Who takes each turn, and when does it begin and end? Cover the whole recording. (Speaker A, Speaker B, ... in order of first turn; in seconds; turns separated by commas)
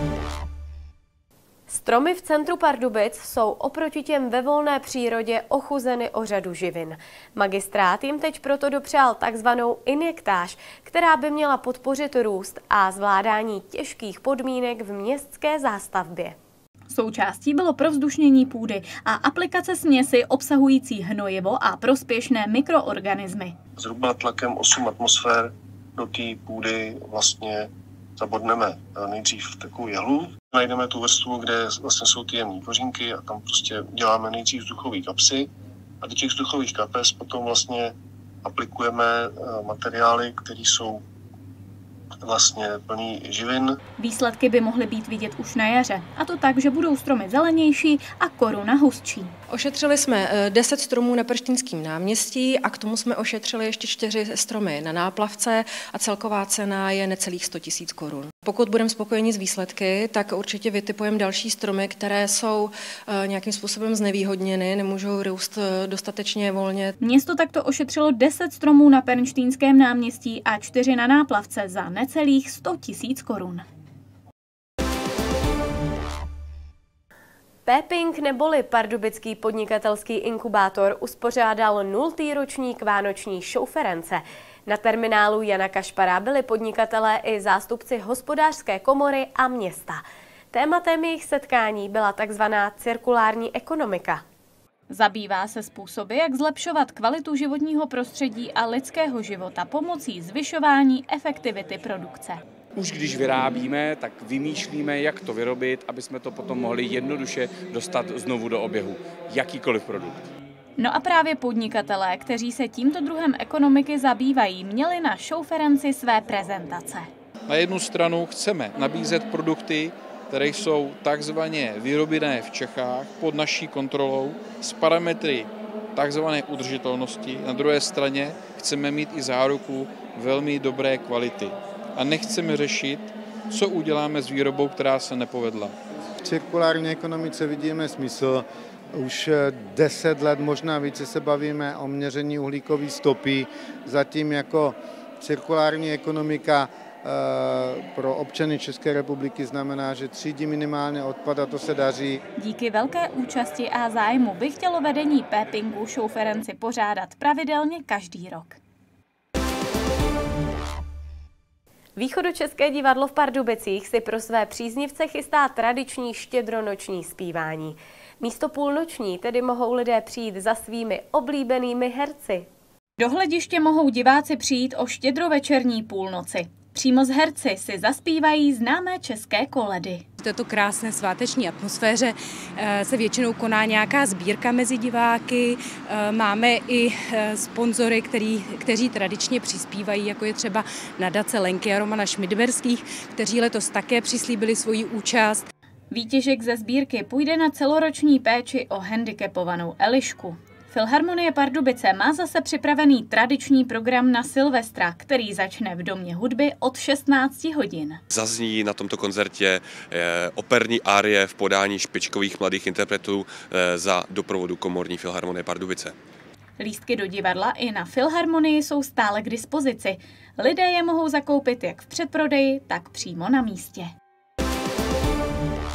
Speaker A: 1.7-16.4, Speaker B: 16.9-23.5, Speaker C: 23.8-27.7, Speaker C: 28.2-35.5, Speaker C: 36.0-41.0, Speaker C: 42.2-43.8, Speaker B: 44.0-49.3, Speaker D: 49.5-66.9, Speaker B: 67.0-73.6, Speaker A: 77.7-94.2, Speaker B: 94.9-102.4, Speaker E: 102.8-110.2, Speaker B: 110.8-117.1, Speaker F: 117.5-135.8, Speaker G: 136.2-152.2, Speaker B: 152.4-158.6, Speaker A: 161.9-172.4, Speaker B: 173.0-180.0, Speaker H: 180.2-195.4, Speaker B: 195.9-208.0, Speaker I: 208.1-215.9, Speaker B: 216.6-223.9